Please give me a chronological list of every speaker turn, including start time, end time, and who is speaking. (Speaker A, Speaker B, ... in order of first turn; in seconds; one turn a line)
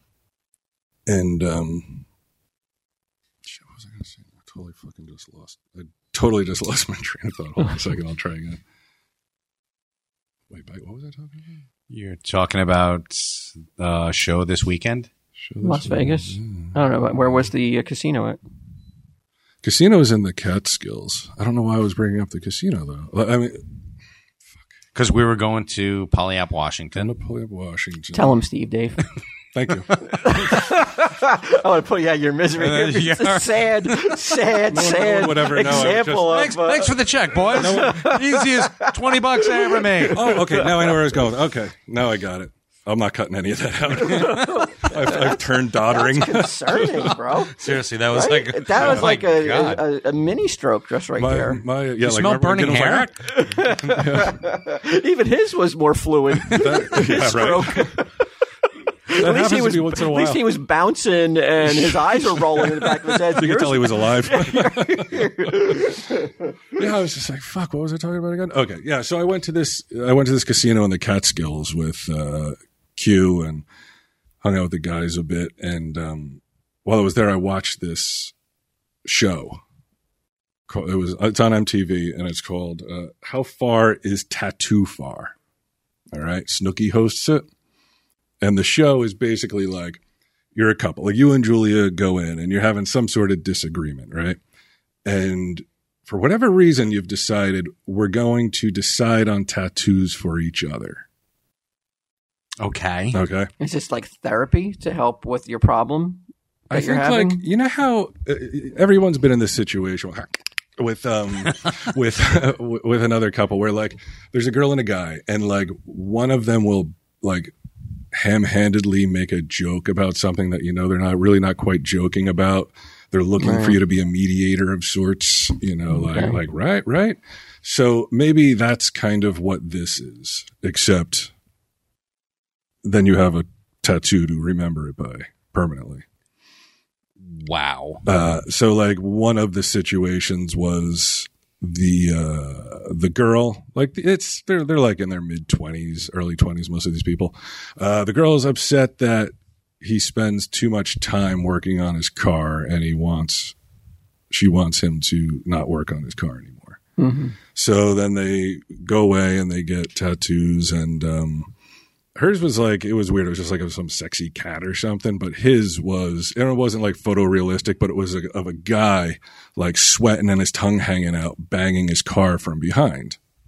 Speaker A: 1.1-2.0
Speaker A: 3.4-8.6
Speaker A: 10.5-11.6
Speaker B: 11.9-15.1
Speaker A: 15.4-16.8
Speaker C: 15.6-18.4
Speaker A: 19.6-23.7
Speaker B: 24.9-27.1
Speaker A: 27.0-28.4
Speaker C: 28.1-29.1
Speaker A: 29.5-30.5
Speaker C: 30.1-41.0
Speaker B: 32.6-34.1
Speaker A: 34.7-36.5
Speaker B: 35.6-40.3
Speaker A: 37.5-38.1
Speaker A: 40.1-47.1
Speaker C: 44.0-51.6
Speaker B: 47.5-49.8
Speaker A: 48.8-49.1
Speaker A: 51.2-53.1
Speaker B: 52.0-53.1
Speaker C: 53.2-58.1
Speaker A: 53.9-54.4
Speaker A: 56.5-57.9
Speaker C: 59.1-66.5
Speaker A: 59.1-60.5
Speaker A: 61.6-66.0
Speaker A: 66.8-73.7
Speaker A: 74.4-78.3
Speaker A: 79.0-79.6
Speaker A: 80.7-85.3
Speaker A: 86.1-87.5
Speaker A: 88.4-90.0
Speaker A: 90.5-94.4
Speaker A: 95.0-101.1
Speaker B: 102.6-103.2
Speaker A: 103.1-103.5
Speaker C: 103.6-107.4
Speaker A: 106.7-117.5
Speaker A: 118.1-131.3
Speaker C: 123.4-123.8
Speaker C: 126.0-126.4
Speaker A: 132.8-136.1
Speaker B: 137.2-138.0
Speaker A: 138.1-153.6
Speaker A: 154.3-156.8
Speaker C: 157.0-157.3
Speaker A: 157.5-161.5
Speaker A: 162.2-173.2